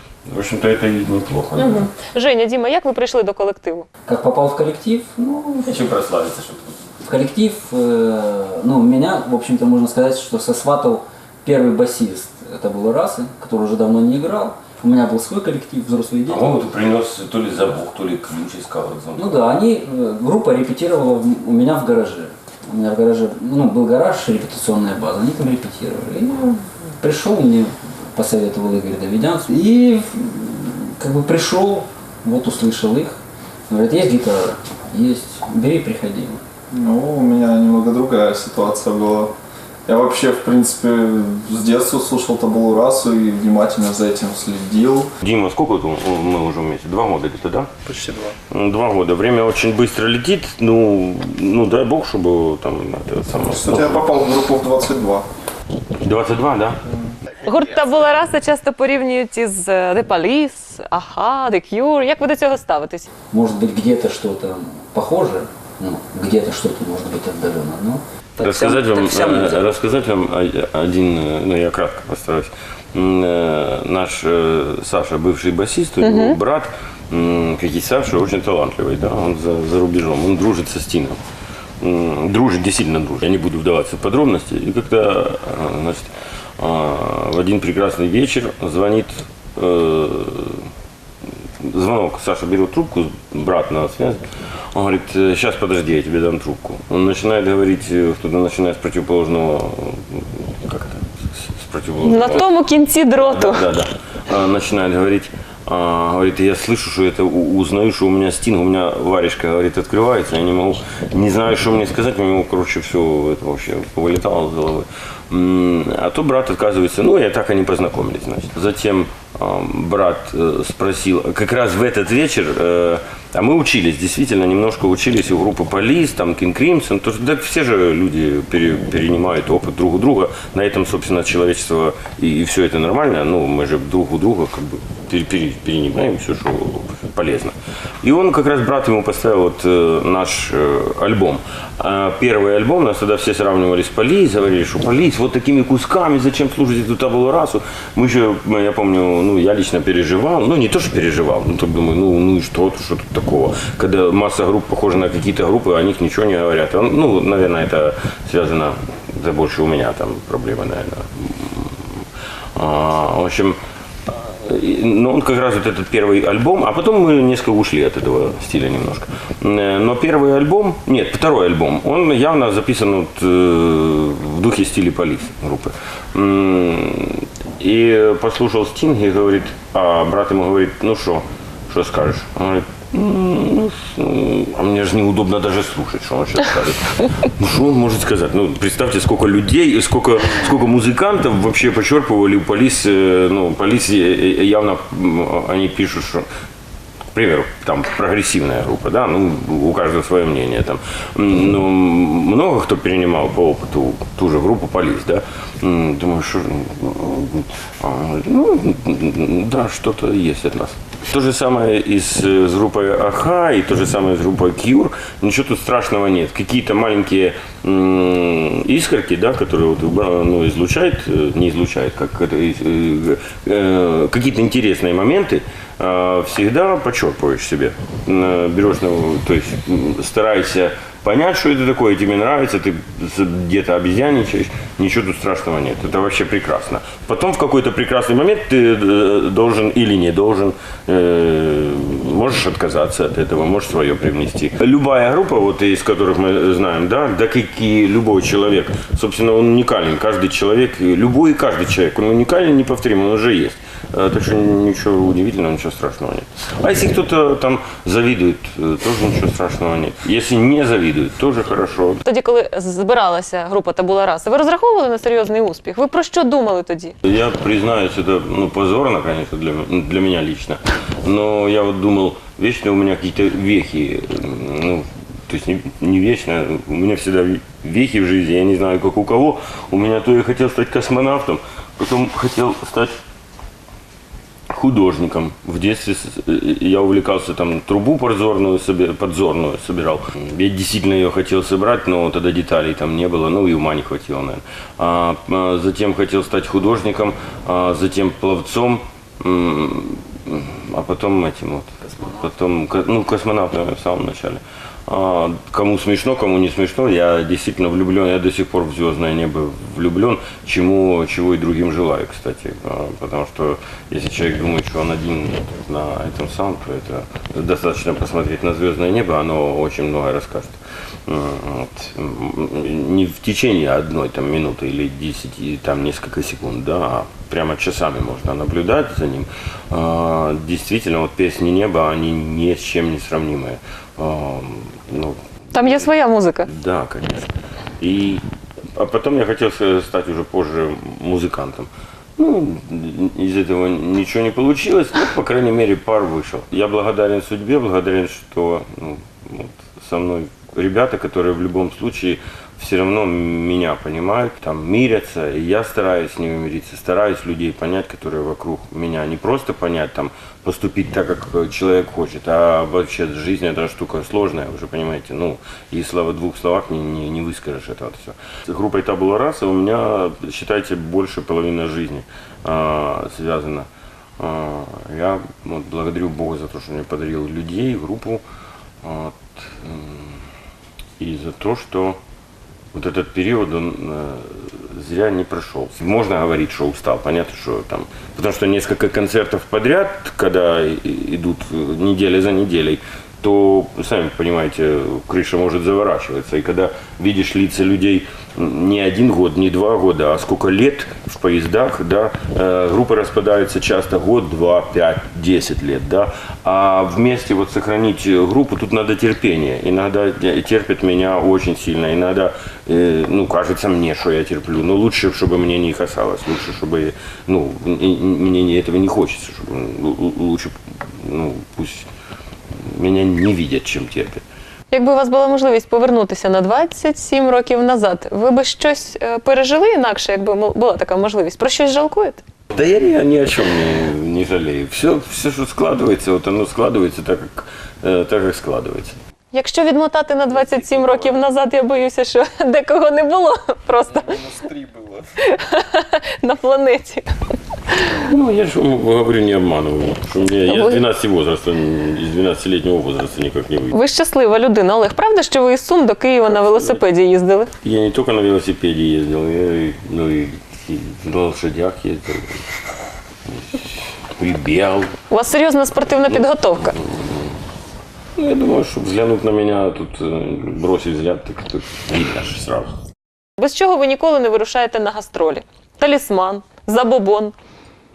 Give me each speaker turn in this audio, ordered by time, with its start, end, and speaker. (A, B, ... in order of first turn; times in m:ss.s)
0:00.2-0:01.9 A
0:01.6-0:03.9 B
0:04.0-0:05.7 C
0:05.6-0:06.7 A
0:07.0-0:16.4 C
0:16.3-0:19.4 A
0:19.1-0:33.2 C
0:33.7-0:36.4 C
0:36.7-0:39.3 D
0:39.8-0:45.1 D
0:45.2-0:47.7 A
0:47.8-0:48.4 D
0:48.5-0:54.1 A
0:53.4-0:55.3 D
0:56.0-0:56.8 A
0:57.4-1:03.1 B
1:03.3-1:09.6 C
1:08.4-1:21.2 A
1:16.0-1:16.4 B
1:21.8-1:30.7 A
1:31.6-1:42.5 A
1:42.0-1:43.6 B
1:43.2-2:42.0 A
2:42.5-3:16.2 A
3:17.1-4:22.0 A
4:22.0-4:26.9 B
4:27.0-4:43.0 A
4:44.5-5:35.9 A
5:01.9-5:02.2 C
5:35.5-5:36.5 B
5:36.4-5:38.2 A
5:38.8-6:13.7 A
6:14.2-6:18.2 A
6:18.8-6:20.2 A
6:21.0-6:22.0 A
6:22.7-7:01.9 A
7:02.6-7:04.2 A
7:04.7-7:12.2 B
7:12.5-7:19.0 A
7:19.3-7:24.3 B
7:20.3-7:21.2 A
7:24.0-7:25.0 D
7:25.2-7:27.1 B
7:28.0-7:33.7 A
7:30.5-7:30.8 B
7:33.7-7:37.5 B
7:36.3-7:36.8 A
7:37.6-7:42.4 A
7:43.3-7:44.9 A
7:45.1-7:46.8 B
7:46.0-7:47.4 A
7:48.2-7:52.8 A
7:53.4-7:57.3 B